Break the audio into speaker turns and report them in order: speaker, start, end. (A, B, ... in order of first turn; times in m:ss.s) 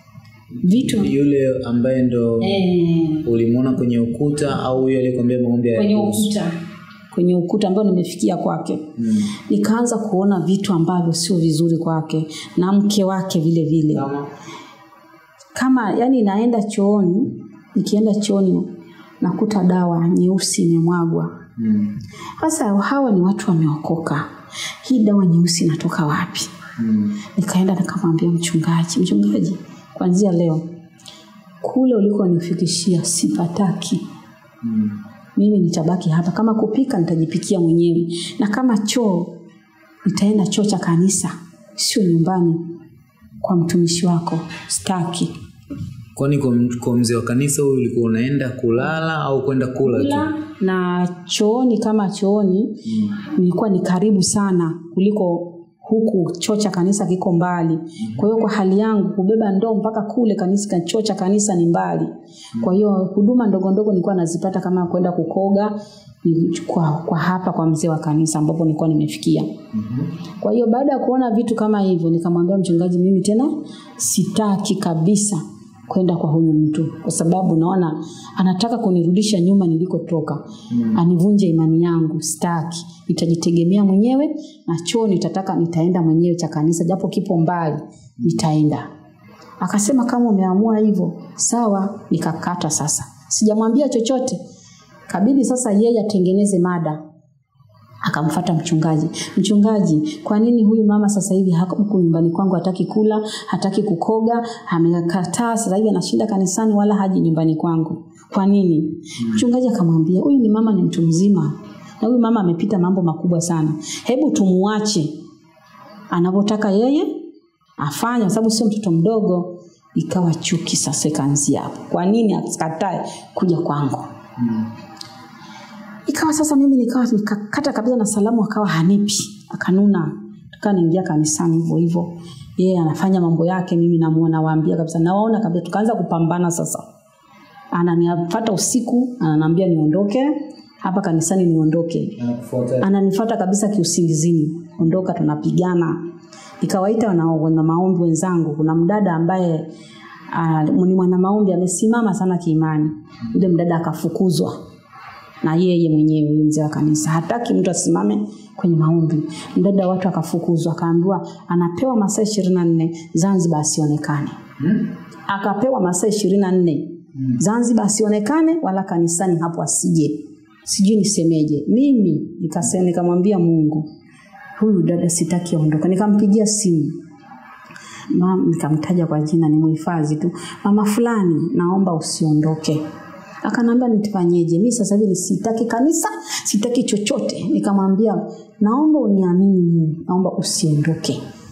0:00.6-0:01.1 A
0:00.7-0:02.7 B
0:02.4-0:03.3 A
0:03.2-0:06.3 B
0:05.8-0:06.5 A
0:07.1-0:08.9 A
0:09.0-0:09.3 B
0:09.5-0:14.1 A
0:14.0-0:14.3 B
0:15.6-0:18.7 A
0:19.2-0:21.4 A
0:21.6-0:21.9 B
0:22.4-0:24.3 A
0:24.8-0:26.6 A
0:26.8-0:27.1 B
0:27.4-0:30.6 A
0:31.6-0:34.0 A
0:34.6-0:35.0 B
0:35.4-0:39.3 A
0:40.0-0:42.6 A
0:43.4-0:45.3 A
0:46.2-0:50.3 B
0:49.8-1:09.5 A
1:09.7-1:10.1 B
1:10.4-1:28.9 A
1:29.6-1:34.4 A
1:35.1-1:37.0 A
1:38.0-1:55.1 A
1:56.1-1:57.1 A
1:57.8-2:04.1 A
2:06.1-2:16.8 A
2:17.7-2:22.2 A
2:22.2-2:22.9 B
2:22.8-2:26.0 A
2:26.6-2:29.7 A
2:30.3-2:34.6 A
2:35.4-2:44.4 A
2:45.3-2:53.8 A
2:54.6-2:57.0 A
2:58.1-3:02.8 A
3:03.4-3:11.2 A